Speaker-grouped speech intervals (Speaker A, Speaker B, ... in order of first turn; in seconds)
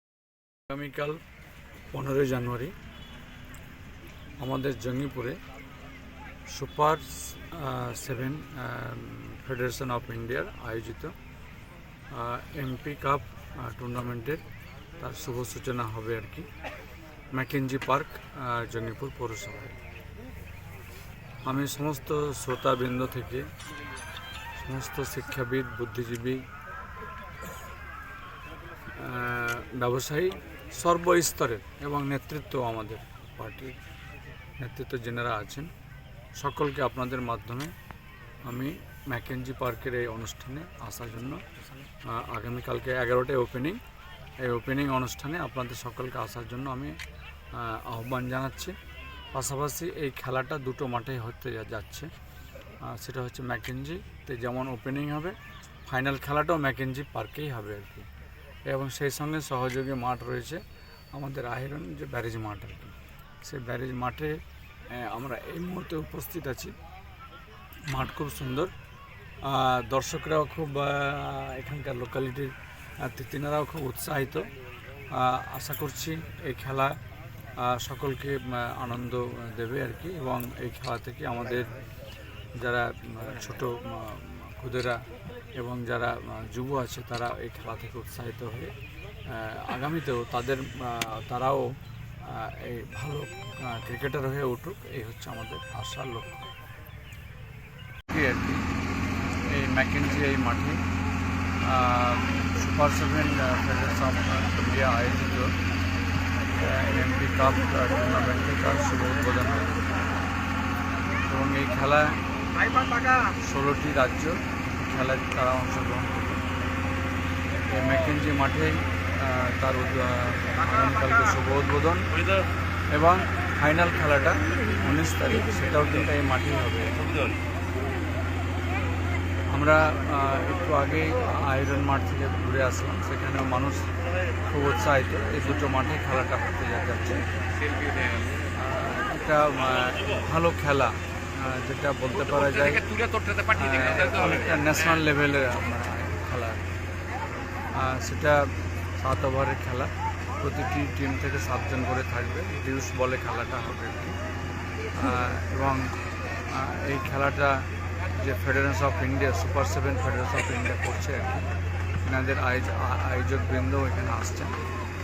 Speaker A: 0.7-1.2, 1.9-2.7, 4.4-5.4, 6.5-11.1, 12.1-14.4, 15.0-16.5, 17.3-19.8, 21.4-23.5, 24.6-26.4, 28.9-33.8, 34.6-35.7, 36.4-37.7, 38.4-41.4, 42.1-43.8, 44.4-47.0, 47.5-48.7, 49.3-52.1, 52.8-58.1, 58.7-60.6, 61.1-66.7, 67.9-68.7, 69.4-74.5, 75.1-76.9, 77.6-81.7, 82.6-85.0, 85.5-88.7, 89.3-91.7, 92.2-96.5, 98.1-98.6, 99.5-100.8, 101.6-105.5, 106.6-109.7, 111.2-112.2, 113.2-116.4, 117.7-122.1, 122.9-127.0, 129.5-133.9, 134.5-137.3, 138.6-142.9, 143.4-146.7, 147.7-154.2, 155.0-155.9, 156.5-157.7, 158.2-161.5, 162.0-164.6